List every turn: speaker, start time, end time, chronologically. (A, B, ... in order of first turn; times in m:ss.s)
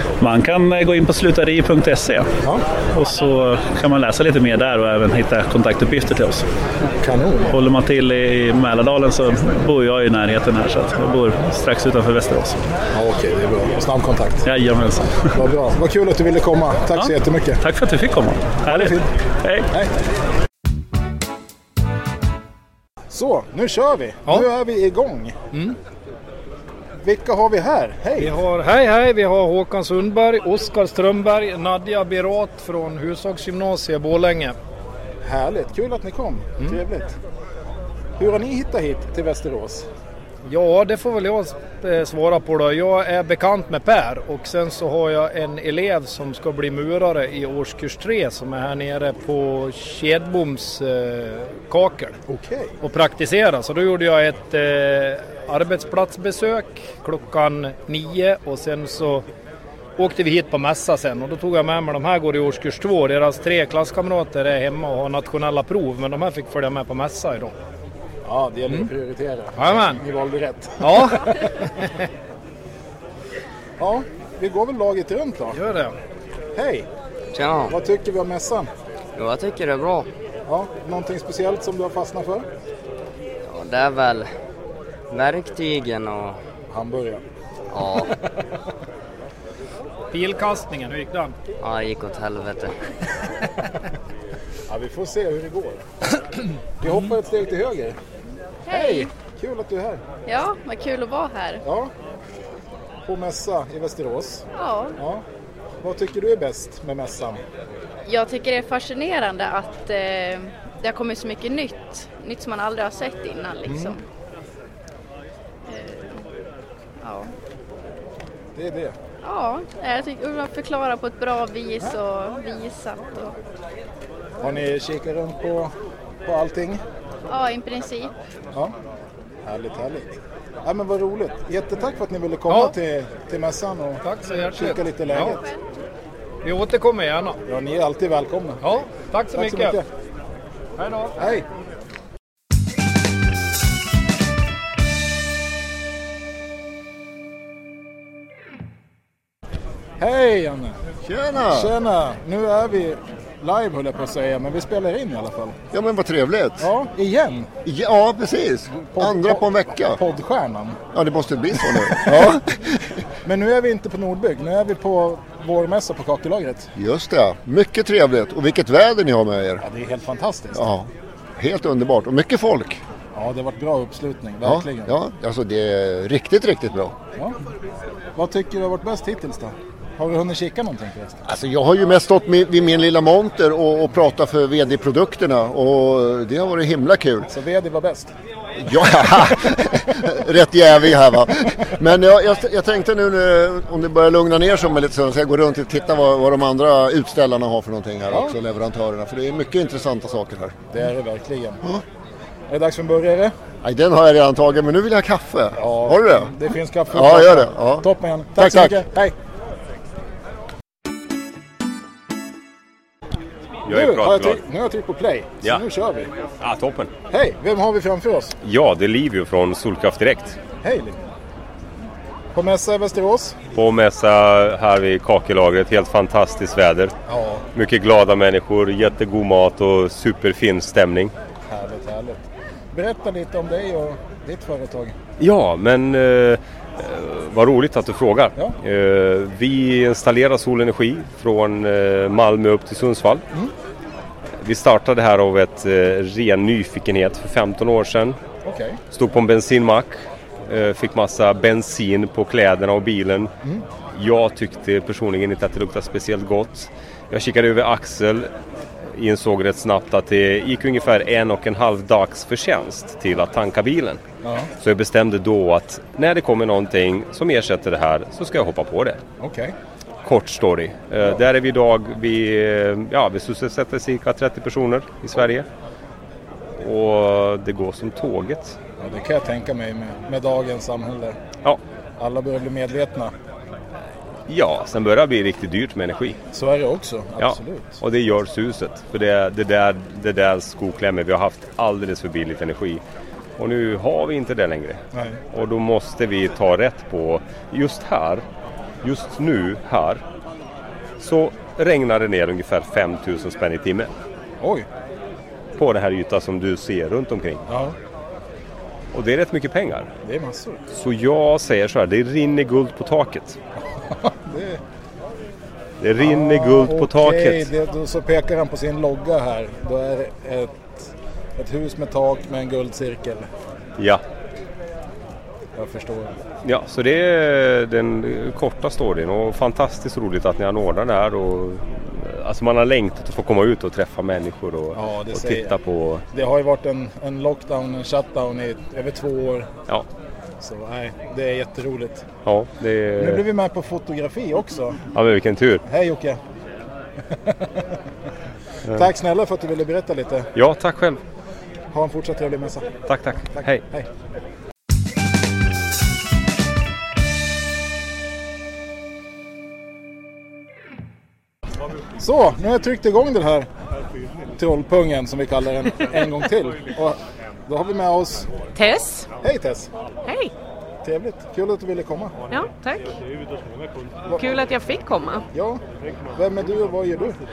0:00.2-0:02.3 A
0:02.9-0:06.5 A
0:07.0-0:07.5 B
0:07.5-0:12.6 A
0:12.9-0:14.4 B
0:14.4-0:15.3 A
0:15.3-0:17.6 B
0:17.0-0:19.7 A
0:18.7-0:19.1 B
0:23.1-0:25.5 B
0:27.0-0:28.4 B
0:28.2-0:34.6 C
0:35.2-0:37.2 B
0:38.2-0:39.9 B
0:40.5-0:52.2 C
0:52.3-0:52.7 B
0:52.8-0:59.2 C
1:00.0-1:07.6 C
1:08.2-1:11.6 B
1:09.6-1:10.0 C
1:10.8-1:11.9 C
1:13.8-1:15.6 B
1:15.5-1:16.0 C
1:16.6-1:16.9 B
1:17.3-1:17.8 D
1:17.7-1:18.7 B
1:19.2-1:20.1 D
1:20.5-1:22.5 B
1:23.4-1:24.3 D
1:25.1-1:26.4 D
1:26.7-1:27.2 B
1:27.7-1:28.1 D
1:30.1-1:31.3 C
1:31.6-1:32.7 D
1:34.7-1:35.9 B
1:36.8-1:38.0 B
1:38.7-1:39.1 E
1:38.7-1:40.0 B
1:40.3-1:41.6 E
1:41.6-1:41.9 B
1:43.1-1:44.4 B
1:44.6-1:45.0 E
1:45.0-1:45.2 B
1:45.8-1:47.4 B
1:48.0-1:54.0 E
1:53.6-1:54.0 B
1:55.7-1:56.2 E
1:57.0-1:57.3 E
1:58.6-1:59.0 B
1:59.2-2:03.4 E
2:04.4-2:05.7 B
2:06.2-2:06.8 B
2:07.3-2:08.1 E
2:09.4-2:15.4 B
2:14.0-2:15.4 C
2:16.4-2:17.4 C
2:17.5-2:18.6 B
2:18.6-2:19.8 C
2:19.3-2:19.9 B
2:20.8-2:21.2 C
2:21.2-2:21.4 B
2:30.0-2:30.8 B
2:31.1-2:31.7 F
2:31.5-2:35.6 B
2:35.7-2:36.7 F
2:36.6-2:37.5 B
2:37.6-2:40.0 F
2:38.9-2:40.8 B
2:40.9-2:42.5 F
2:42.0-2:42.4 B
2:43.2-2:46.7 B
2:46.8-2:49.6 F
2:49.6-2:50.6 B
2:50.6-2:52.8 F
2:53.2-2:54.9 B
2:54.4-2:56.9 F
2:58.2-3:01.2 B
3:01.3-3:07.3 F
3:07.3-3:08.1 B
3:08.6-3:20.6 F
3:20.7-3:21.6 B
3:22.5-3:23.3 B
3:23.6-3:26.3 F
3:25.6-3:29.1 B
3:26.9-3:27.8 F
3:28.4-3:28.7 F
3:33.7-3:34.4 G
3:33.7-3:36.1 B
3:36.4-3:36.9 G
3:37.1-3:38.4 B
3:38.4-3:40.4 G
3:40.6-3:41.0 B
3:42.3-3:43.4 B
3:43.5-3:46.9 G
3:47.1-3:47.4 B
3:47.6-3:51.1 G
3:51.5-3:55.0 B
3:55.2-4:03.2 G
4:04.4-4:08.2 G
4:08.4-4:08.8 B
4:08.9-4:13.3 G
4:13.9-4:18.3 G
4:18.9-4:24.0 G
4:24.2-4:24.5 B
4:24.6-4:29.0 G
4:29.2-4:29.6 B
4:30.0-4:35.5 G
4:36.6-4:38.6 G
4:38.8-4:41.2 B
4:42.0-4:43.1 B
4:44.3-4:46.2 G
4:46.3-4:47.8 B
4:47.2-4:52.8 G
4:53.4-4:54.8 G
4:54.9-4:55.2 B
4:55.3-4:58.2 G
4:58.8-5:00.0 G
5:01.0-5:03.9 G
5:04.4-5:04.7 B
5:05.6-5:07.4 G
5:07.5-5:07.8 B
5:08.9-5:09.9 G
5:10.0-5:10.6 B
5:10.7-5:13.4 G
5:14.0-5:14.6 B
5:15.8-5:17.5 G
5:16.0-5:23.3 B
5:25.6-5:26.2 B
5:26.4-5:36.0 G
5:34.7-5:35.6 B
5:36.1-5:39.5 B
5:40.4-5:42.1 B
5:42.2-5:43.2 G
5:43.0-5:44.8 B
5:44.9-5:45.6 G
5:45.7-5:46.2 B
5:47.2-5:47.6 B
5:48.7-5:50.3 B
5:50.4-5:51.0 G
5:51.7-5:52.7 B
5:52.9-5:53.6 G
5:53.4-5:53.9 B
6:02.0-6:03.5 B
6:04.4-6:08.3 B
6:08.6-6:09.1 H
6:09.2-6:09.7 B
6:10.0-6:10.3 H
6:10.8-6:12.2 B
6:12.3-6:13.0 H
6:14.1-6:15.2 H
6:15.3-6:15.6 B
6:16.2-6:17.2 B